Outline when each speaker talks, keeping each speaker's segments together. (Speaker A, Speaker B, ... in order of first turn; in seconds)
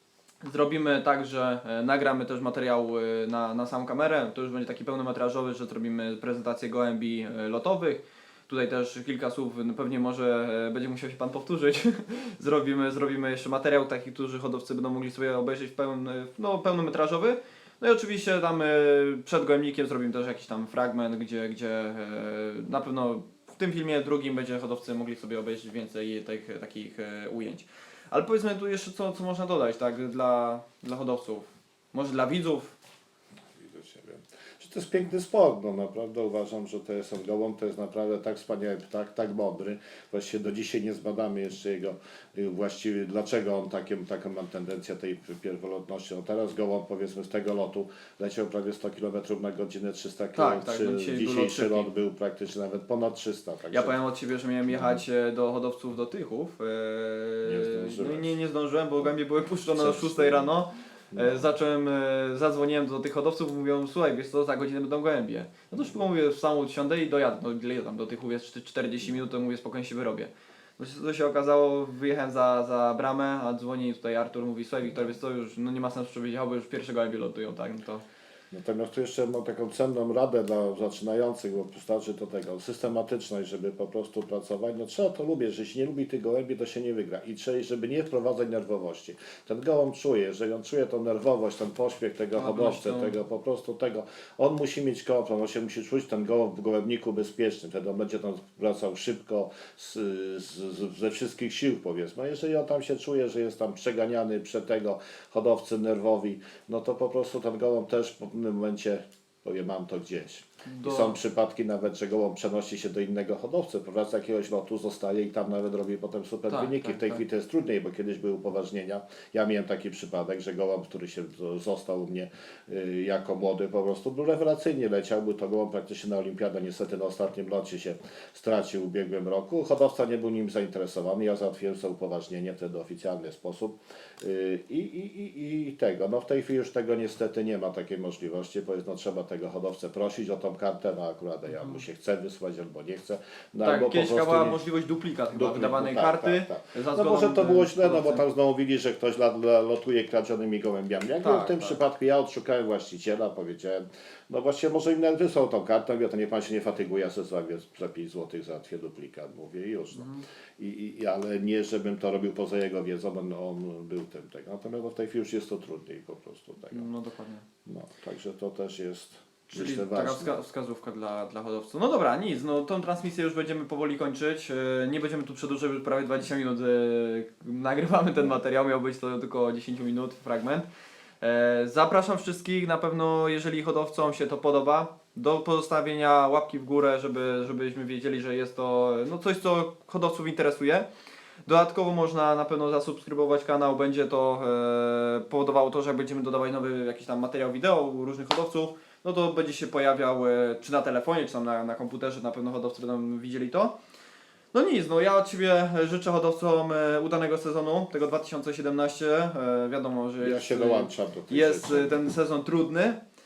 Speaker A: 0.4-32.8, 50.4-51.9, 53.7-78.0, 92.3-93.2, 110.6-111.2, 116.5-117.2, 143.6-148.2, 151.2-151.8, 159.9-160.2, 166.7-167.4, 169.5-180.7, 181.2-190.9, 191.4-203.8, 204.5-213.0
Speaker B: 33.5-54.0, 57.4-58.4, 59.7-60.5, 61.1-61.4, 78.5-144.6, 145.3-166.9, 167.7-170.3, 210.2-212.0